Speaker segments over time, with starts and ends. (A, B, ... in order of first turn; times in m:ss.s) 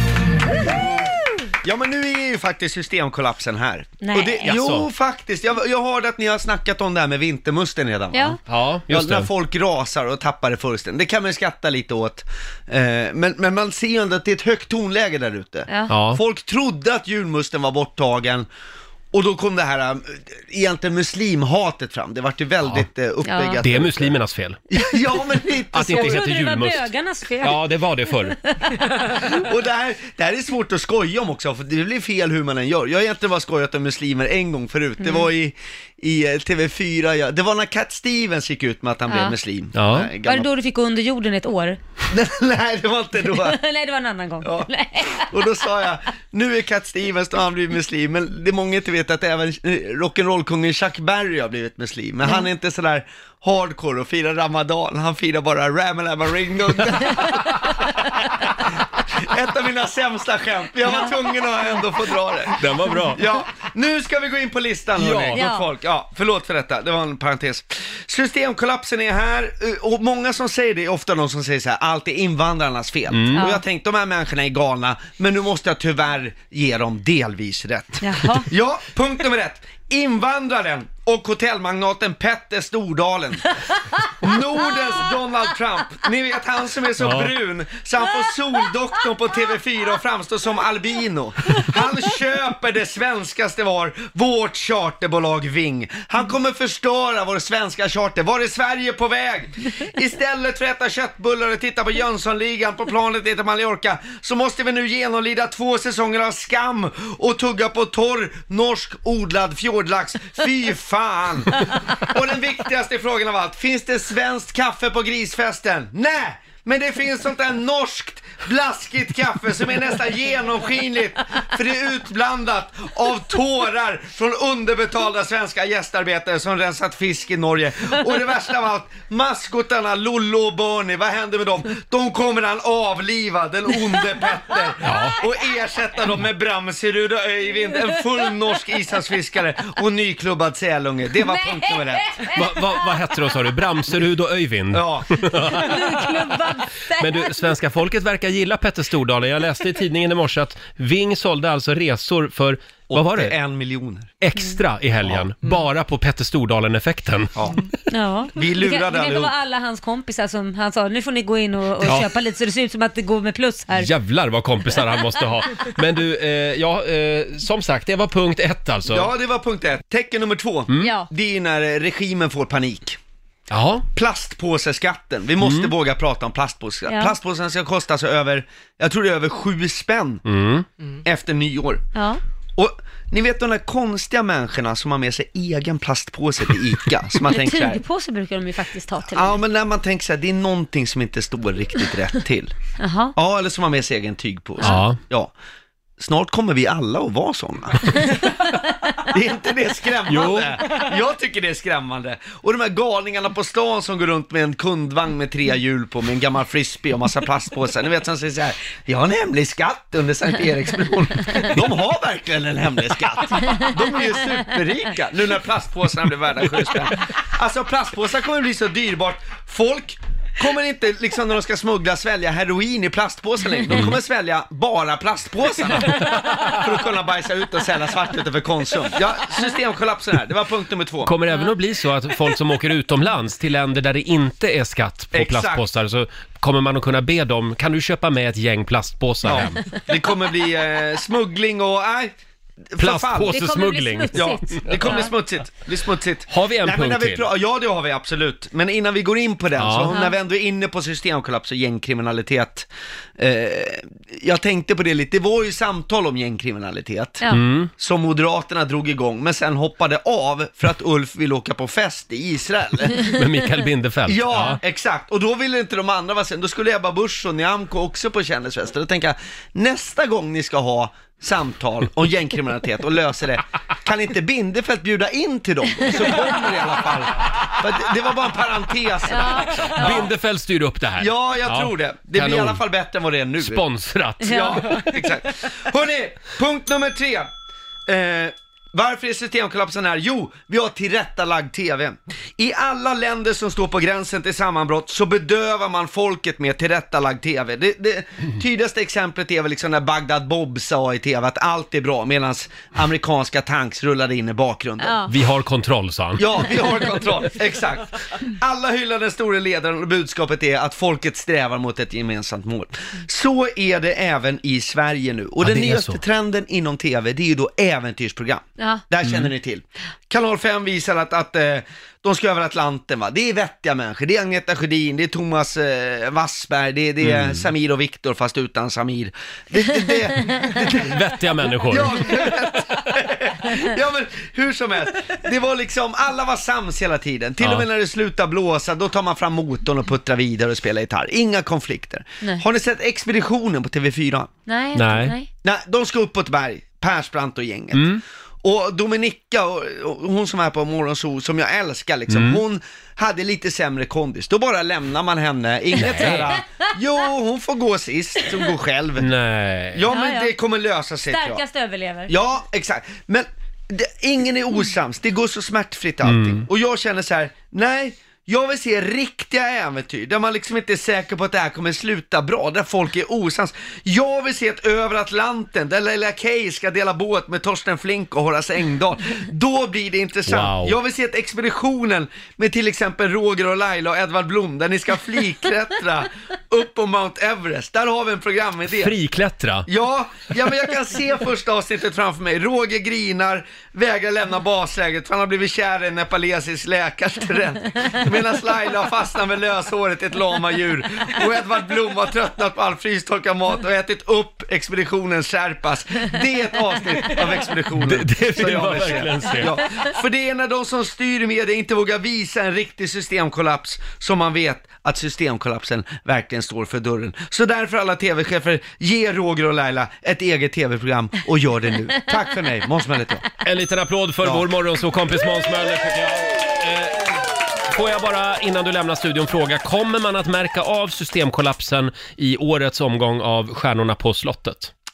0:01.6-0:18.5 A
0:04.0-0:04.5 B
0:04.4-0:04.9 C
0:08.1-0:08.4 B
0:08.5-0:09.3 C
0:15.7-0:15.9 B
0:15.9-0:16.2 C
0:19.1-0:24.1 A
0:23.2-0:23.6 B
0:23.6-0:24.6 C
0:24.7-0:26.3 A
0:25.7-0:26.9 C
0:25.8-0:29.3 B
0:27.4-0:28.4 C
0:29.0-0:40.5 A
0:35.0-0:35.3 B
0:39.1-0:39.4 B
0:39.7-0:40.1 C
0:40.2-0:41.8 B
0:42.1-0:43.6 A
0:43.2-0:45.7 B
0:44.4-1:23.6 A
0:57.0-0:57.6 C
1:02.6-1:03.2 C
1:04.9-1:05.4 C
1:05.3-1:05.7 B
1:13.1-1:13.5 C
1:13.3-1:13.6 B
1:18.0-1:18.5 B
1:24.2-2:22.1 A
1:27.0-1:27.3 C
2:14.8-2:15.2 C
2:21.2-2:23.7 B
2:22.3-2:26.4 C
2:24.7-2:25.6 A
2:25.4-2:27.5 B
2:26.9-2:33.3 C
2:32.9-2:34.1 A
2:34.2-2:37.5 C
2:35.0-2:35.3 A
2:37.3-2:37.7 A
2:37.9-2:43.9 B
2:38.3-2:39.3 A
2:41.8-2:42.1 C
2:43.7-2:49.1 C
2:44.7-2:45.2 B
2:48.9-2:53.0 A
2:50.8-2:51.1 B
2:53.5-2:53.8 C
2:53.9-3:00.2 A
2:55.4-2:55.7 C
2:56.9-2:57.2 B
3:00.2-3:00.6 C
3:01.0-3:01.8 A
3:01.9-3:02.2 B
3:02.6-3:07.8 A
3:07.2-3:09.4 B
3:09.0-3:12.5 A
3:12.8-3:13.1 B
3:13.1-3:15.3 A
3:14.6-3:15.0 C
3:16.0-3:18.3 A
3:18.1-3:18.6 B
3:19.0-3:51.1 A
3:20.1-3:20.6 C
3:43.7-3:44.0 C
3:46.1-3:46.6 C
3:51.0-3:59.6 C
3:51.3-3:51.5 B
3:55.1-3:55.6 A
3:59.2-4:02.1 A
4:02.7-4:03.4 A
4:02.8-4:05.1 C
4:03.3-4:05.1 B
4:04.1-4:17.2 A
4:06.3-4:07.3 C
4:09.6-4:10.0 C
4:09.9-4:10.2 B
4:17.3-4:17.7 C
4:17.8-4:23.1 A
4:23.0-4:24.6 C
4:24.1-4:40.1 A
4:39.1-4:40.1 B
4:39.7-4:42.6 C
4:41.0-4:43.6 A
4:43.4-4:45.0 C
4:44.2-4:47.3 A
4:44.2-4:44.9 B
4:47.9-5:05.1 A
5:04.8-5:05.1 B
5:05.1-5:06.2 C
5:06.2-5:44.3 A
5:15.4-5:16.0 C
5:18.6-5:18.8 B
5:19.0-5:19.3 C
5:27.0-5:27.5 C
5:30.7-5:32.1 C
5:37.4-5:37.7 C
5:44.5-5:45.3 B
5:44.7-5:45.1 C
5:45.4-5:59.1 A
5:47.7-5:48.0 C
5:52.1-5:52.4 C
5:55.7-5:56.4 C
5:59.0-5:59.8 C
5:59.7-6:01.4 A
5:59.9-6:00.3 B
6:01.1-6:02.1 B
6:02.1-6:28.9 A
6:06.0-6:06.4 C
6:20.2-6:20.8 C
6:28.7-6:29.7 C
6:29.7-7:03.2 A
6:47.7-6:49.6 C
7:03.4-7:14.7 C
7:04.2-7:04.5 A